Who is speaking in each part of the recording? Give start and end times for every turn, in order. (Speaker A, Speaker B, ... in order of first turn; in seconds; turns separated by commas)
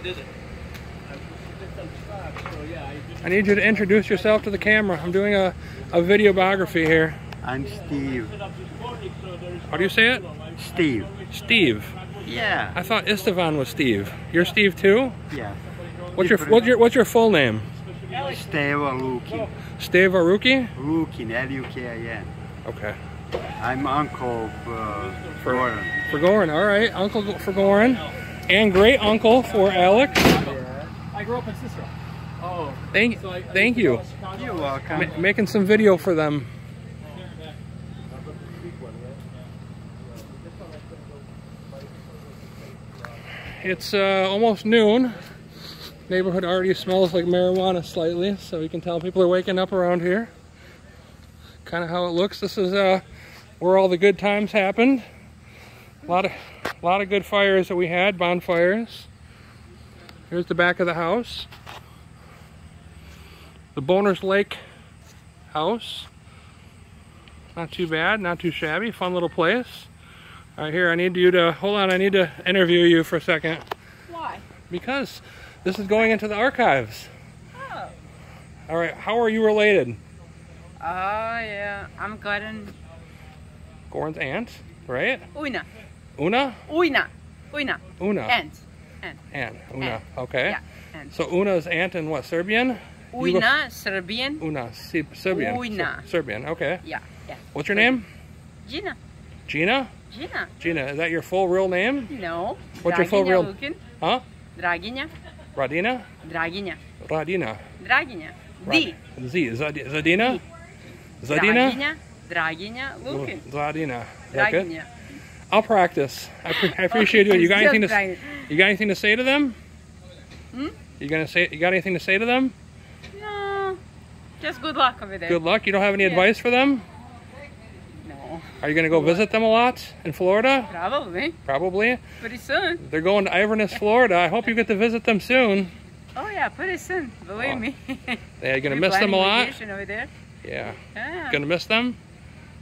Speaker A: 1.6-3.1, Speaker B: 3.2-7.2, Speaker C: 7.4-8.4, Speaker A: 8.6-9.4, Speaker B: 9.7-10.3, Speaker C: 10.6-11.1, Speaker B: 11.3-12.0, Speaker C: 12.2-12.8, Speaker B: 12.7-15.2, Speaker C: 15.3-15.6, Speaker C: 16.1-16.7, Speaker B: 16.2-17.7, Speaker C: 18.1-19.5, Speaker B: 19.8-20.8, Speaker C: 20.8-22.3, Speaker B: 22.7-23.0, Speaker C: 23.6-26.0, Speaker B: 25.4-30.5, Speaker C: 30.4-30.9, Speaker A: 31.1-31.9, Speaker A: 32.4-32.8, Speaker B: 32.9-34.1, Speaker C: 34.3-35.2, Speaker B: 34.9-36.5, Speaker B: 43.5-45.2, Speaker B: 46.1-50.3, Speaker B: 51.6-53.0, Speaker B: 53.6-55.0, Speaker B: 56.0-59.1, Speaker B: 60.3-61.5, Speaker B: 63.8-64.6, Speaker B: 65.5-66.1, Speaker B: 67.5-69.9, Speaker B: 70.6-73.7, Speaker D: 74.1-74.4, Speaker B: 74.7-77.1, Speaker D: 77.5-77.9, Speaker B: 78.7-80.0, Speaker D: 80.8-82.8, Speaker B: 83.9-85.3, Speaker D: 85.3-85.7, Speaker B: 86.2-86.6, Speaker D: 86.7-89.2, Speaker B: 88.0-88.4, Speaker B: 89.3-90.6, Speaker D: 89.8-91.1, Speaker B: 91.1-93.5, Speaker D: 93.1-94.4, Speaker B: 94.4-96.8, Speaker D: 95.3-96.0, Speaker D: 96.8-97.9, Speaker B: 97.5-98.1, Speaker D: 98.6-99.0, Speaker B: 99.5-99.9, Speaker D: 100.1-100.5, Speaker B: 100.6-102.1, Speaker D: 102.1-103.8, Speaker B: 102.8-104.2, Speaker D: 104.6-105.1, Speaker B: 105.6-106.1, Speaker D: 106.2-106.8, Speaker B: 107.0-107.6, Speaker D: 107.8-109.0, Speaker B: 108.6-110.4, Speaker B: 111.2-111.8, Speaker D: 111.3-113.4, Speaker B: 113.1-114.7, Speaker D: 114.3-114.9, Speaker B: 115.5-119.6, Speaker D: 116.5-118.5, Speaker B: 121.0-122.5, Speaker D: 123.1-123.8, Speaker D: 124.4-125.4, Speaker B: 125.3-126.9, Speaker D: 126.0-126.3, Speaker D: 128.0-128.5, Speaker B: 128.6-130.7, Speaker D: 130.7-131.4, Speaker B: 131.4-132.0, Speaker D: 132.2-132.8, Speaker B: 132.8-135.7, Speaker D: 136.2-140.1, Speaker B: 137.4-137.6, Speaker B: 138.4-139.6, Speaker B: 140.4-142.0, Speaker D: 140.9-141.4